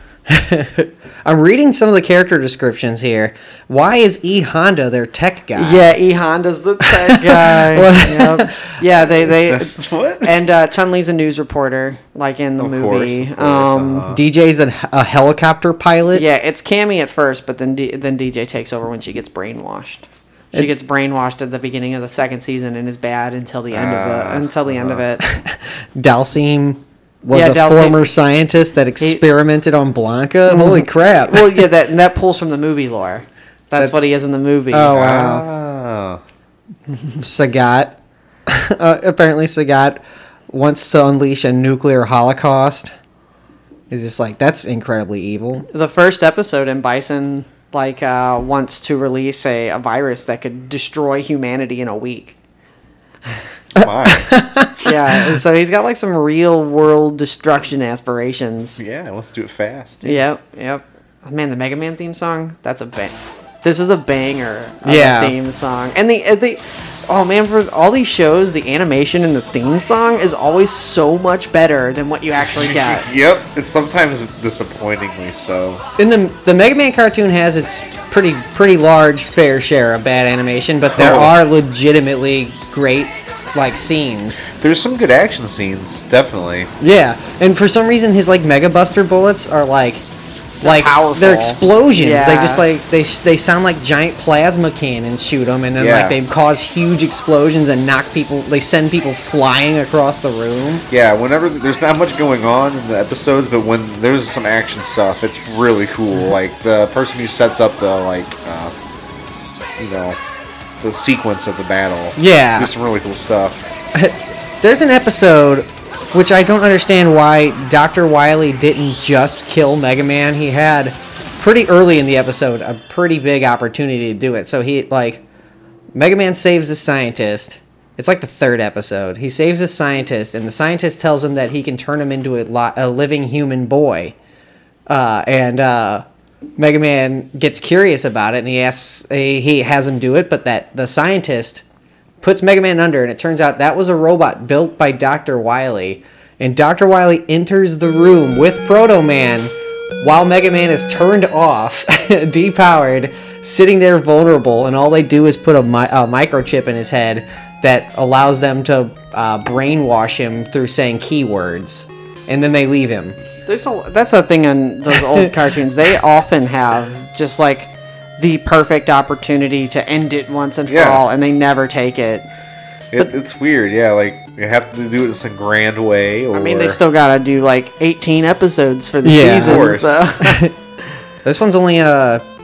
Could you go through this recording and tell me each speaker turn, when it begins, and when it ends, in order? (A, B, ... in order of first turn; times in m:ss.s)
0:00.3-0:06.0 A
0:05.6-0:14.0 B
0:06.8-0:08.7 A
0:09.4-0:10.4 C
0:12.6-0:14.2 C
0:14.1-0:16.2 A
0:16.1-0:25.2 B
0:23.7-0:25.0 C
0:25.2-0:31.7 A
0:27.3-0:28.1 B
0:30.5-0:35.0 B
0:33.8-0:34.1 A
0:34.7-0:35.5 A
0:34.9-0:36.2 C
0:37.2-0:42.9 A
0:43.9-0:45.7 A
0:45.7-0:52.4 B
0:53.8-0:54.4 C
0:53.8-0:54.7 A
0:54.8-0:58.8 B
0:58.8-1:00.2 C
1:00.0-1:13.1 B
1:04.8-1:05.4 A
1:12.4-1:15.8 C
1:16.0-1:24.5 A
1:20.9-1:21.3 C
1:24.6-1:26.7 C
1:26.8-1:30.0 A
1:30.6-1:40.9 A
1:30.6-1:32.6 B
1:35.8-1:36.2 C
1:40.9-1:48.7 C
1:49.8-1:50.2 C
1:50.8-1:53.6 C
1:52.2-1:52.7 A
1:54.0-2:05.2 A
2:05.9-2:14.2 A
2:14.9-2:16.0 A
2:16.6-2:21.6 A
2:22.2-2:43.2 A
2:43.5-2:52.3 B
2:50.7-2:51.0 C
2:52.9-2:56.8 C
2:56.3-3:00.5 B
2:59.0-2:59.7 A
2:59.4-3:00.1 C
3:00.2-3:00.5 A
3:01.2-3:02.2 A